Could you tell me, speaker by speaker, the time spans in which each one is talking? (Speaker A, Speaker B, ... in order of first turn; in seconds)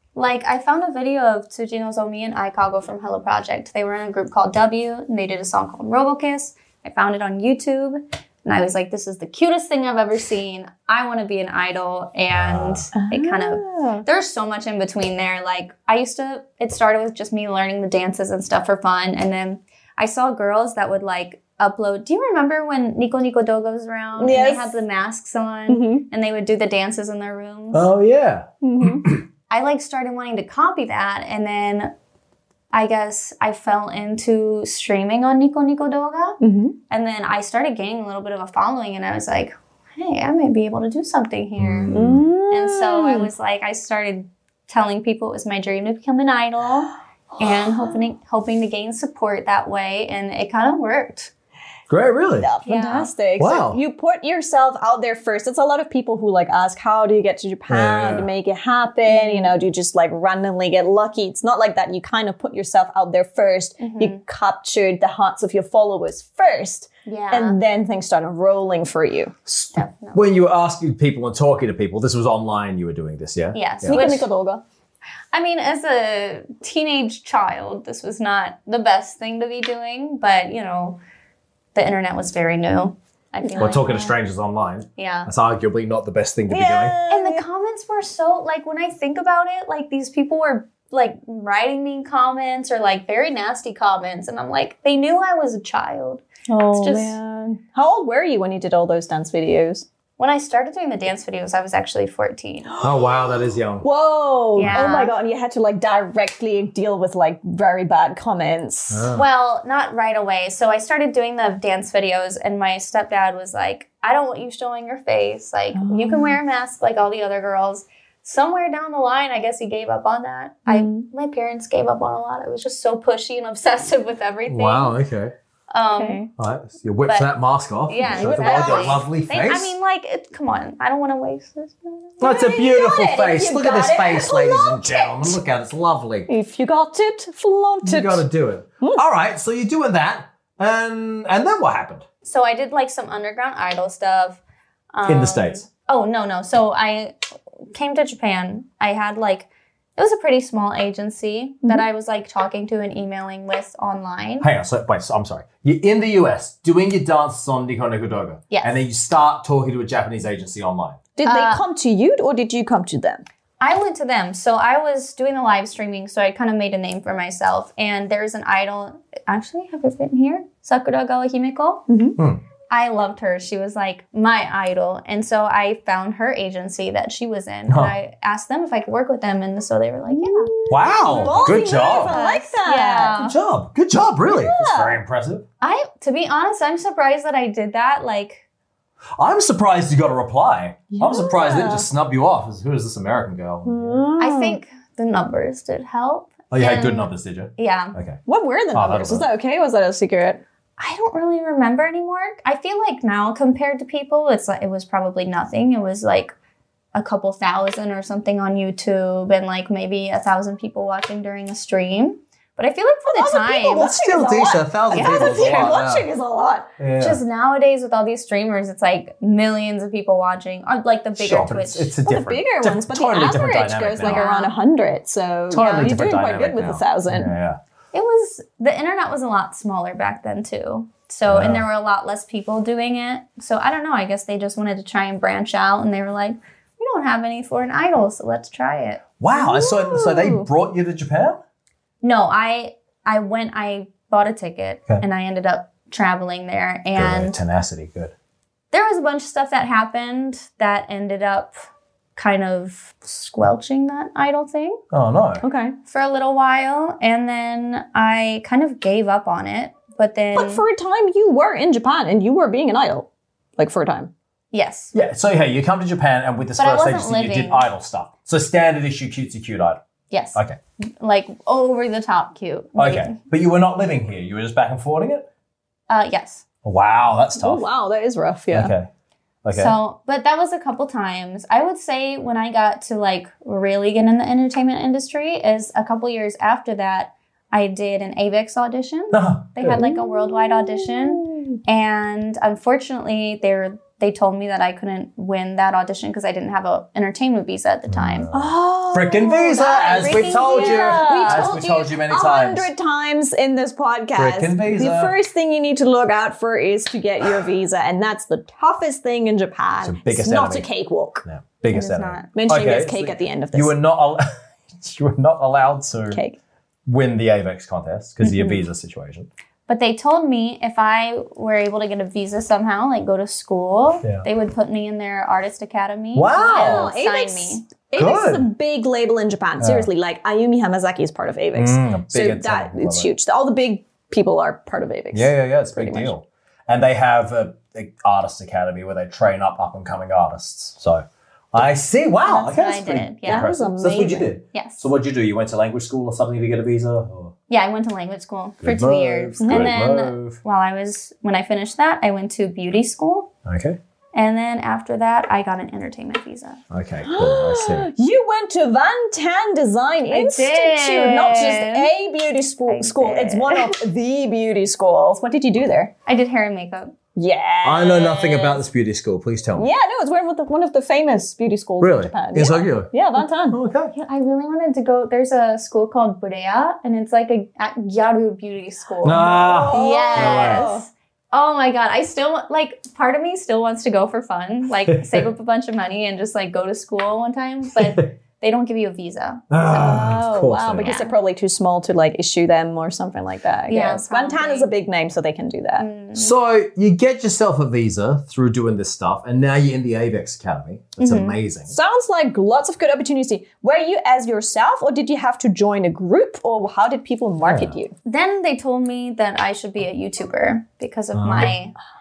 Speaker A: 0.1-27.9, 29.5-31.9, 32.7-51.3, 52.6-53.1, 59.1-59.5, 63.8-64.2, 67.0-67.6, 69.7-70.3, 73.5-74.3, 75.3-81.0, 81.7-84.2, 85.0-85.3, 87.1-97.2, 100.2-102.7, 104.5-105.1, 109.1-125.0, 125.7-126.2, 127.0-127.3, 127.8-132.2, 142.2-144.4, 144.9-147.1, 147.7-154.5, 158.5-158.8, 161.2-161.6, 163.6-171.8, 172.7-183.3, 185.6-188.4, 194.2-197.9, 200.8-206.3, 206.9-214.0, 214.9-215.6, 217.0-221.9, 224.0-224.5, 225.6-225.9, 227.9-239.0, 242.0-247.4, 248.7-251.5, 252.2-254.8, 255.9-260.6, 264.5-264.9, 266.6-267.6, 270.1-270.4, 271.0-273.1, 275.9-276.4, 279.5-298.3, 299.5-301.6, 311.7-312.3, 319.7-327.6, 342.2-343.7, 344.5-344.8, 347.5-353.3, 354.1-356.6, 360.1-361.9, 362.7-363.8, 366.1-366.9, 373.9-390.1, 390.8-391.1, 393.7-394.7, 395.8-396.3, 401.0-401.4, 408.0-411.7
Speaker B: 12.3-12.9, 27.7-29.2, 41.6-42.2, 51.9-52.5, 53.4-53.8, 57.7-58.3, 69.5-74.2, 83.6-86.9, 102.8-103.8, 108.9-109.2, 124.5-125.3, 126.4-129.7, 132.2-136.3, 137.8-142.0, 145.1-145.6, 154.4-161.0, 172.2-172.4, 177.7-177.9, 180.7-182.2, 183.1-185.4, 189.2-194.0, 196.5-198.2, 198.7-199.3, 213.8-216.1, 216.8-217.2, 221.2-224.2, 225.5-227.6, 231.3-231.6, 239.2-241.4, 246.9-248.1, 254.9-255.4, 264.9-269.8, 272.8-275.3, 276.6-277.6, 278.5-278.9, 279.4-279.7, 289.1-289.9, 297.9-302.7, 304.1-305.1, 309.8-310.7, 311.2-316.2, 316.9-319.3, 326.1-326.9, 327.9-328.5, 329.6-329.9, 331.5-333.1, 335.1-347.3, 348.6-350.4, 353.4-353.8, 356.7-357.9, 367.6-369.7, 371.8-373.9, 379.0-380.7, 384.9-385.2, 387.8-388.1, 389.5-390.9, 396.1-401.7, 407.4-407.8, 411.1-411.5
Speaker C: 12.9-14.0, 24.2-24.7, 25.7-26.0, 28.6-29.1, 36.4-36.8, 41.9-43.3, 47.5-47.9, 52.4-69.3, 73.8-74.6, 86.5-87.4, 96.5-99.8, 103.8-109.1, 115.7-116.4, 120.7-121.1, 125.9-126.3, 128.0-129.0, 132.2-135.4, 136.3-138.2, 161.2-163.2, 171.9-172.2, 180.1-183.2, 184.2-185.0, 190.9-191.9, 193.6-194.6, 198.2-200.4, 213.1-216.7, 222.0-227.3, 239.3-240.5, 255.4-255.7, 260.3-264.1, 277.4-278.7, 289.8-291.6, 298.3-311.2, 312.3-313.8, 316.1-316.4, 318.2-318.6, 326.4-336.1, 343.2-344.3, 349.4-349.7, 357.0-365.9, 367.1-368.6, 369.6-373.6, 379.1-380.9, 389.7-395.9, 401.7-407.9